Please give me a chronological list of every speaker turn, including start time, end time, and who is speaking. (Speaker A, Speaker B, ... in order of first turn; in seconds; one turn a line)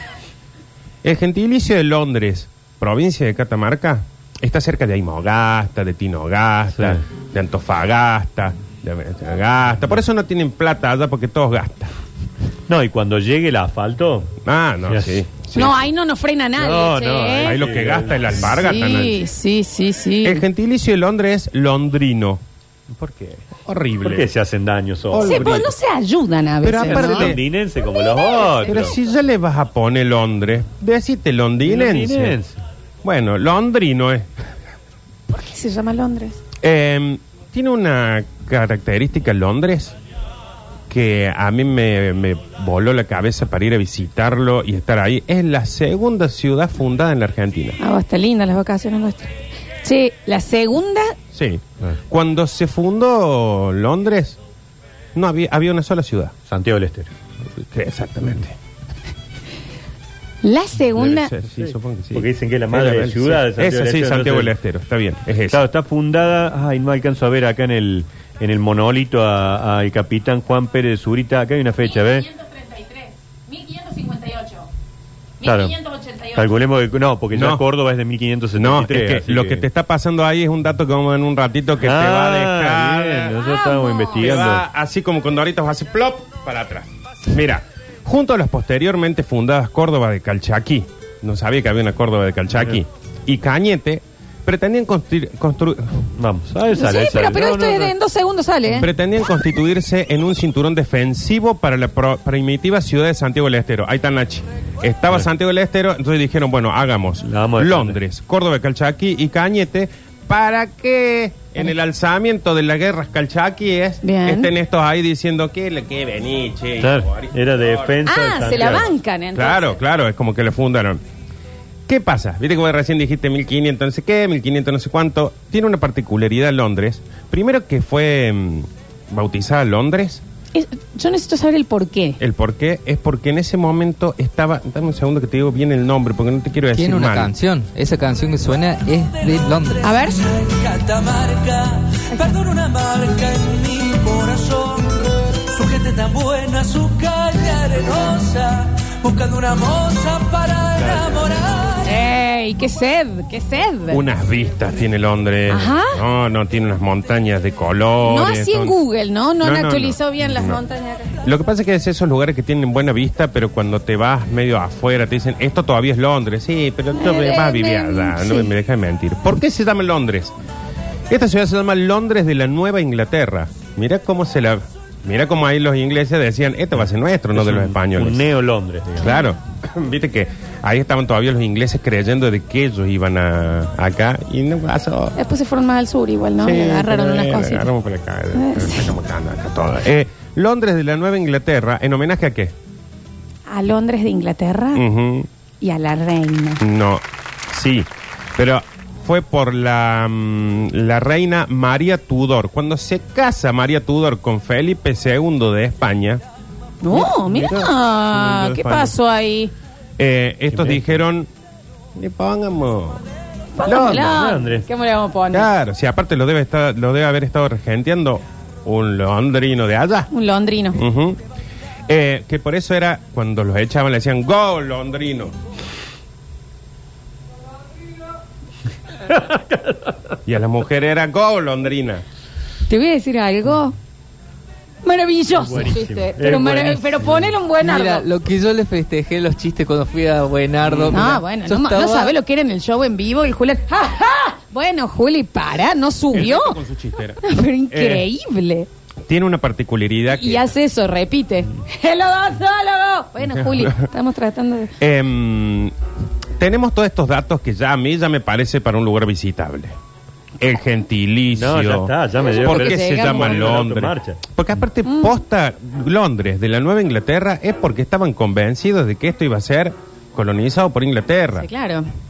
Speaker A: 1.0-11.9
Speaker B: 6.8-7.0
Speaker B: 12.7-14.3
Speaker A: 14.4-15.9
Speaker B: 14.9-15.2
Speaker C: 15.5-17.6
Speaker B: 16.6-18.5
Speaker A: 17.4-19.2
Speaker C: 18.4-20.4
Speaker A: 20.2-22.4
Speaker B: 22.9-23.5
Speaker A: 23.6-24.3
Speaker B: 24.0-25.4
Speaker A: 25.1-25.7
Speaker C: 25.2-28.8
Speaker A: 26.6-27.4
Speaker B: 26.8-29.0
Speaker A: 28.7-32.4
Speaker B: 31.6-32.6
Speaker A: 33.0-34.3
Speaker C: 35.3-36.4
Speaker A: 36.6-40.0
Speaker A: 40.9-47.8
Speaker C: 47.8-51.2
Speaker A: 51.3-54.4
Speaker A: 55.1-56.3
Speaker B: 56.5-57.1
Speaker A: 57.6-58.5
Speaker C: 60.4-61.3
Speaker A: 61.0-65.6
Speaker B: 61.6-64.5
Speaker B: 65.5-72.3
Speaker C: 71.8-74.7
Speaker C: 75.4-76.5
Speaker B: 75.4-75.7
Speaker B: 76.3-79.7
Speaker A: 77.3-77.6
Speaker A: 78.6-83.4
Speaker B: 81.8-84.6
Speaker C: 83.3-84.5
Speaker A: 84.2-96.1
Speaker B: 96.2-97.9
Speaker C: 96.7-98.9
Speaker A: 98.8-118.0
Speaker B: 107.2-108.0
Speaker C: 114.0-114.5
Speaker B: 116.8-118.9
Speaker C: 118.0-119.8
Speaker A: 118.5-121.0
Speaker A: 121.9-130.2
Speaker C: 130.5-132.2
Speaker A: 132.2-137.3
Speaker D: 136.7-139.9
Speaker C: 139.8-140.4
Speaker E: 140.3-150.8
Speaker C: 142.1-142.4
Speaker A: 150.8-151.6
Speaker B: 150.8-151.1
Speaker C: 151.8-154.0
Speaker A: 153.9-158.8
Speaker C: 155.5-156.0
Speaker C: 158.0-161.2
Speaker A: 159.4-160.6
Speaker A: 161.2-170.3
Speaker C: 166.9-168.5
Speaker A: 171.1-178.3
Speaker B: 177.3-179.1
Speaker A: 179.0-185.2
Speaker C: 185.2-187.7
Speaker A: 186.4-192.6
Speaker C: 188.3-188.9
Speaker C: 193.5-194.8
Speaker A: 194.8-195.3
Speaker C: 195.6-196.6
Speaker A: 196.6-206.2
Speaker C: 206.8-209.5
Speaker A: 206.9-208.9
Speaker A: 210.0-211.3
Speaker B: 210.5-211.0
Speaker A: 212.0-213.0
Speaker C: 213.6-215.5
Speaker A: 213.7-214.2
Speaker B: 213.9-214.7
Speaker A: 215.3-220.1
Speaker C: 220.1-220.8
Speaker A: 220.8-221.2
Speaker A: 221.9-225.3
Speaker B: 229.1-230.2
Speaker A: 230.3-232.0
Speaker C: 232.7-233.8
Speaker C: 234.8-238.1
Speaker B: 235.4-237.3
Speaker D: 237.6-242.1
Speaker B: 240.6-241.0
Speaker C: 240.9-246.6
Speaker A: 246.1-248.1
Speaker C: 247.2-248.7
Speaker A: 249.1-250.5
Speaker C: 250.1-254.8
Speaker A: 253.4-253.8
Speaker A: 254.8-255.7
Speaker A: 256.4-259.8
Speaker A: 260.4-271.5
Speaker B: 261.3-264.2
Speaker C: 262.2-263.6
Speaker C: 271.4-271.9